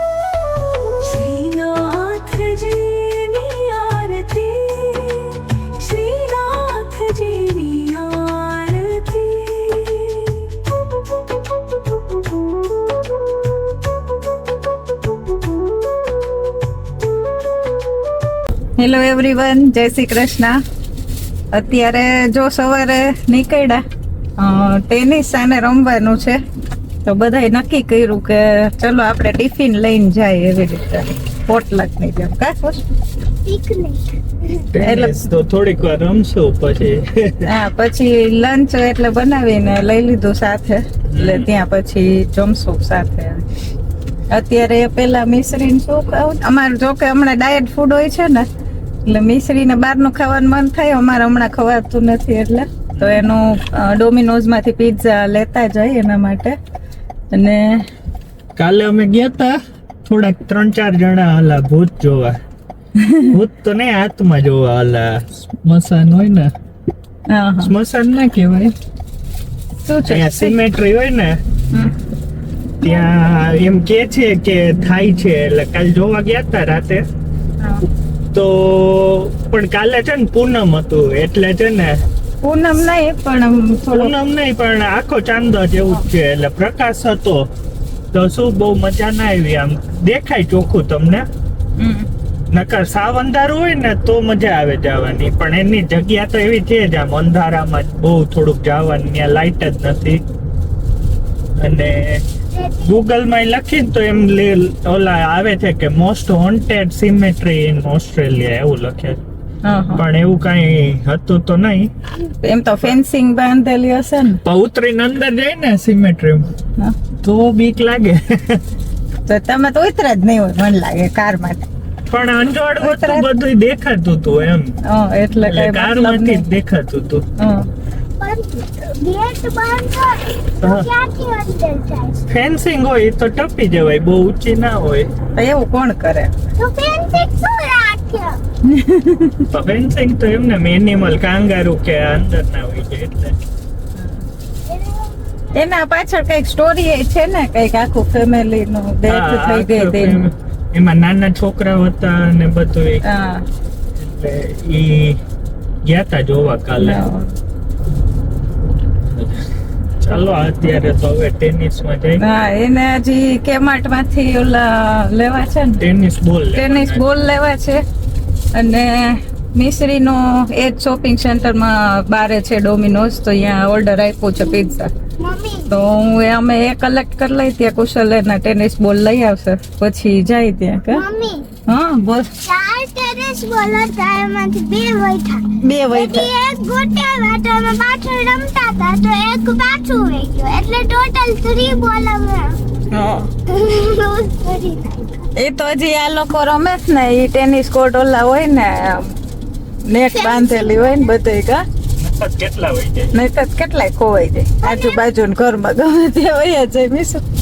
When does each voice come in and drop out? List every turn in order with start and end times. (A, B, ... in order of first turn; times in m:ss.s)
0:01.0-0:10.5 A
0:18.8-0:20.6 B
0:21.5-0:23.8 B
0:24.4-0:26.4 B
0:27.0-0:32.8 B
0:33.4-0:34.7 C
0:34.7-0:37.4 D
0:34.8-0:35.2 B
0:37.4-0:43.4 B
0:41.1-0:41.5 D
0:44.3-0:48.5 B
0:49.0-0:56.6 B
0:52.9-0:53.3 D
0:57.3-0:57.9 B
0:58.6-1:02.4 D
1:03.0-1:03.4 B
1:03.3-1:06.5 D
1:07.3-1:07.7 B
1:07.6-1:08.7 D
1:09.8-1:10.6 B
1:10.1-1:11.4 D
1:12.8-1:17.0 D
1:18.3-1:22.0 D
1:22.4-1:24.1 B
1:23.9-1:27.5 D
1:28.1-1:31.3 D
1:31.8-1:32.1 B
1:32.5-1:40.2 D
1:41.6-1:42.2 D
1:42.5-1:42.9 C
1:42.8-1:49.2 D
1:49.6-1:50.0 B
1:49.9-1:51.9 D
1:52.3-1:54.4 B
1:54.4-1:56.5 D
1:57.2-1:58.6 D
1:59.3-2:01.7 B
2:02.1-2:04.8 D
2:02.8-2:03.3 B
2:04.8-2:06.4 B
2:05.4-2:07.2 D
2:07.4-2:07.7 B
2:08.2-2:12.2 C
2:10.6-2:10.9 D
2:12.3-2:15.1 D
2:15.4-2:16.3 B
2:16.6-2:18.4 C
2:18.7-2:19.5 B
2:19.5-2:23.4 D
2:24.0-2:24.2 B
2:24.6-2:25.7 C
2:25.5-2:30.3 B
2:29.1-2:33.0 D
2:33.0-2:33.4 B
2:34.0-2:35.2 D
2:35.9-2:37.0 D
2:36.8-2:37.3 B
2:39.2-2:39.4 D
2:40.0-2:42.2 D
2:42.2-2:45.8 B
2:45.8-2:47.1 D
2:46.5-2:47.8 B
2:48.5-2:54.9 B
2:54.4-2:55.7 C
2:55.7-3:01.0 B
3:00.9-3:01.5 C
3:01.7-3:02.4 B
3:02.4-3:12.6 C
3:05.6-3:06.3 B
3:12.9-3:13.3 B
3:13.5-3:15.3 C
3:15.4-3:19.2 B
3:19.9-3:21.6 B
3:20.1-3:21.2 C
3:22.0-3:23.1 D
3:23.1-3:27.2 B
3:24.6-3:25.0 C